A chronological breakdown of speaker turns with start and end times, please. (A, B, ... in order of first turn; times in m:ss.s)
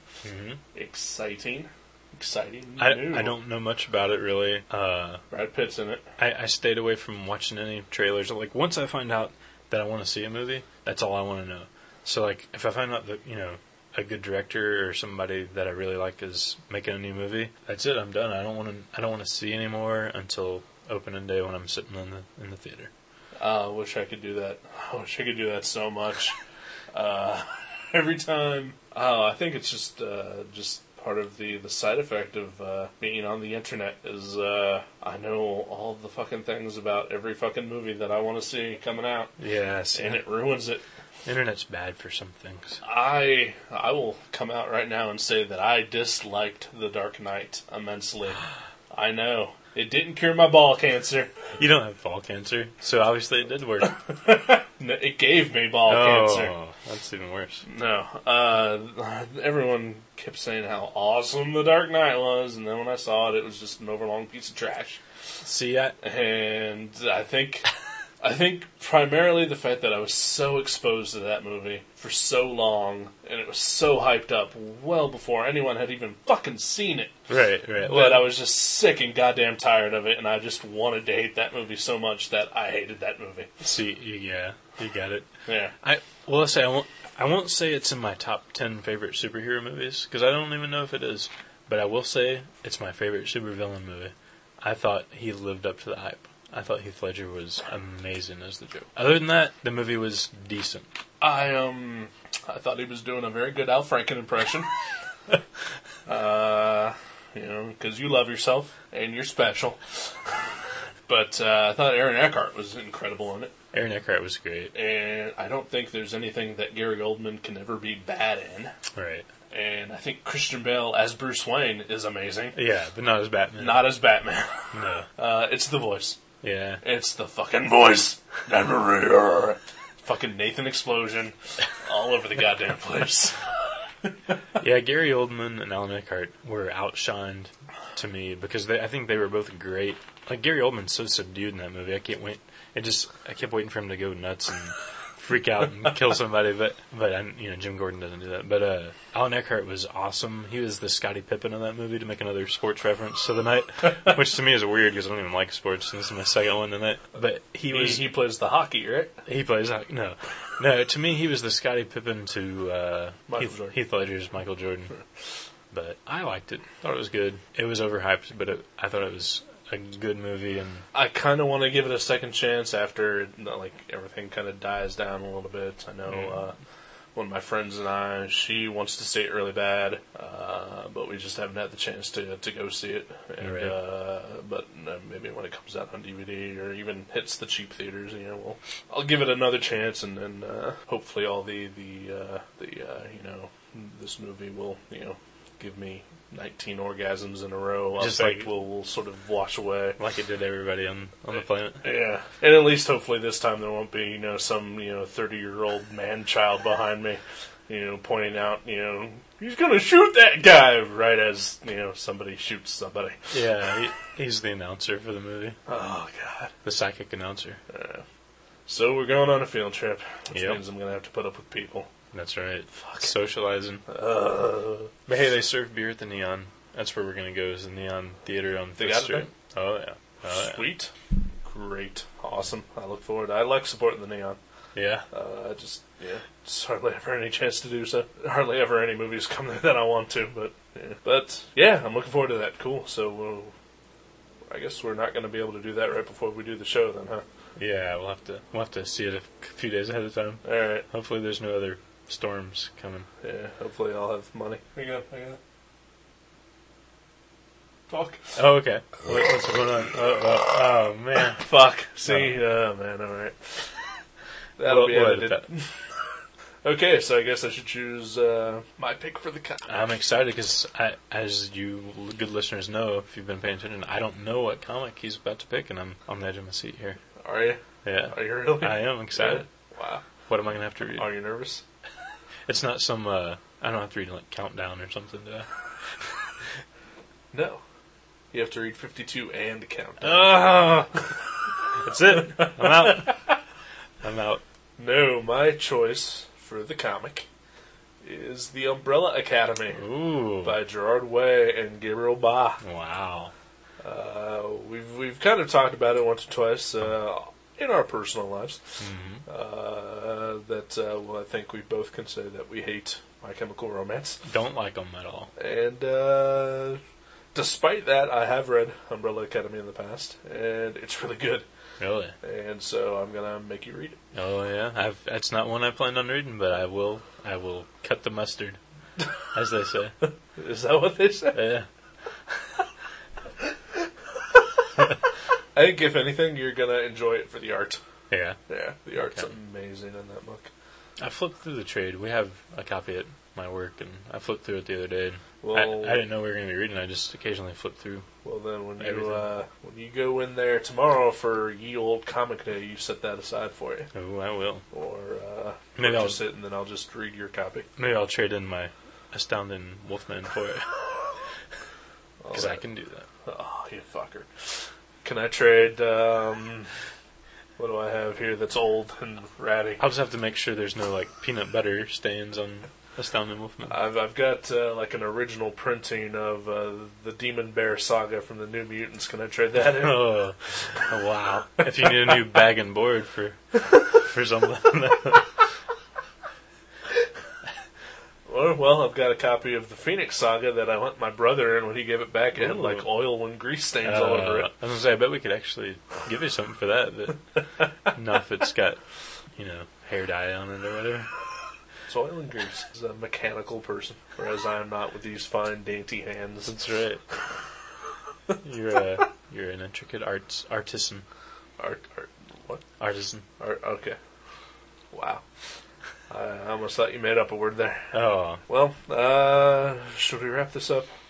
0:00.2-0:00.6 A
0:00.7-0:03.3 B
0:02.8-0:05.2 A
0:05.3-0:06.0 B
0:06.2-0:22.9 A
0:23.4-0:26.4 B
0:26.9-0:39.3 B
0:39.4-0:40.3 A
0:40.0-0:40.8 B
0:41.3-0:42.8 A
0:42.8-0:51.3 B
0:51.6-0:54.0 A
0:53.8-0:56.5 B
0:55.9-0:57.6 A
0:57.7-1:05.0 B
1:05.4-1:06.0 A
1:06.0-1:07.7 B
1:08.2-1:17.2 B
1:17.3-1:18.3 A
1:17.8-1:23.6 B
1:23.6-1:25.3 A
1:25.5-1:25.7 B
1:25.8-1:40.9 A
1:41.2-1:44.7 B
1:46.1-1:50.1 B
1:51.1-1:53.5 B
1:53.7-1:54.7 A
1:54.7-1:58.7 B
1:59.0-1:59.3 A
1:59.5-2:02.6 B
2:02.6-2:03.9 A
2:03.6-2:06.2 B
2:04.7-2:05.1 A
2:06.4-2:06.8 A
2:06.8-2:13.4 B
2:14.6-2:38.1 A
2:37.7-2:39.2 B
2:39.3-2:44.9 A
2:43.3-2:43.8 B
2:45.7-2:50.8 A
2:50.9-2:56.6 B
2:56.1-2:56.4 A
2:57.2-3:20.0 B
3:03.4-3:03.8 A
3:18.0-3:18.5 A
3:20.0-3:21.9 A
3:21.8-3:33.4 B
3:33.3-3:35.6 A
3:35.7-3:36.5 B
3:36.6-3:37.6 A
3:37.7-3:38.0 B
3:38.7-3:41.9 B
3:40.3-3:40.6 A
3:42.1-3:43.8 A
3:42.8-3:43.1 B
3:43.9-3:44.9 B
3:45.1-3:50.7 A
3:48.8-3:49.3 B
3:50.2-3:50.9 B
3:51.4-3:54.4 B
3:54.8-3:55.0 A
3:55.1-4:03.5 B
4:04.5-4:07.2 B
4:07.6-4:13.1 A
4:10.4-4:10.8 B
4:13.2-4:15.4 B
4:17.9-4:18.4 B
4:18.4-4:21.4 A
4:21.4-4:23.7 B
4:22.1-4:22.4 A
4:24.6-4:25.8 B
4:24.6-4:25.4 A
4:26.6-4:30.0 B
4:29.7-4:37.0 A
4:37.2-4:40.0 B
4:37.8-4:39.4 A
4:40.3-4:41.1 A
4:40.9-4:41.6 B
4:42.5-4:45.5 A
4:47.3-4:47.6 B
4:48.3-4:51.2 B
4:50.0-4:50.6 A
4:51.8-4:53.2 A
4:52.0-4:53.3 B
4:54.0-4:54.4 A
4:54.8-4:57.3 B
4:58.0-4:59.8 B
4:59.8-5:00.6 A
5:00.4-5:02.6 B
5:02.6-5:03.3 A
5:03.8-5:08.6 B
5:08.8-5:09.2 A
5:09.3-5:14.2 B
5:14.2-5:15.3 A
5:15.4-5:16.8 B
5:17.3-5:21.5 B
5:21.8-5:22.2 A
5:22.2-5:24.0 B
5:24.1-5:28.6 A
5:29.3-5:30.0 A
5:30.0-5:31.5 B
5:31.3-5:31.7 A
5:35.6-5:37.8 B
5:38.1-5:38.4 A
5:38.5-5:40.5 B
5:41.0-5:48.1 A
5:45.4-5:46.0 B
5:48.2-5:53.9 B
5:48.8-5:49.3 A
5:53.9-5:54.6 A
5:54.7-5:57.7 B
5:55.8-5:56.2 A
5:57.8-6:00.8 A
6:02.2-6:02.6 B
6:02.3-6:03.1 A
6:03.2-6:04.5 B
6:05.0-6:06.7 B
6:07.6-6:09.8 B
6:09.8-6:13.8 A
6:13.7-6:20.0 B
6:19.8-6:25.3 A
6:28.3-6:34.5 B
6:32.4-6:32.9 A
6:33.8-6:38.8 A
6:39.4-6:41.1 A
6:41.9-6:46.5 B
6:46.5-6:47.0 A
6:48.4-6:51.0 A
6:51.6-6:52.6 B
6:52.8-6:53.2 A
6:53.4-6:54.0 B
6:54.9-6:55.2 B
6:56.1-6:57.9 B
6:57.9-6:58.4 A
6:58.5-7:00.9 B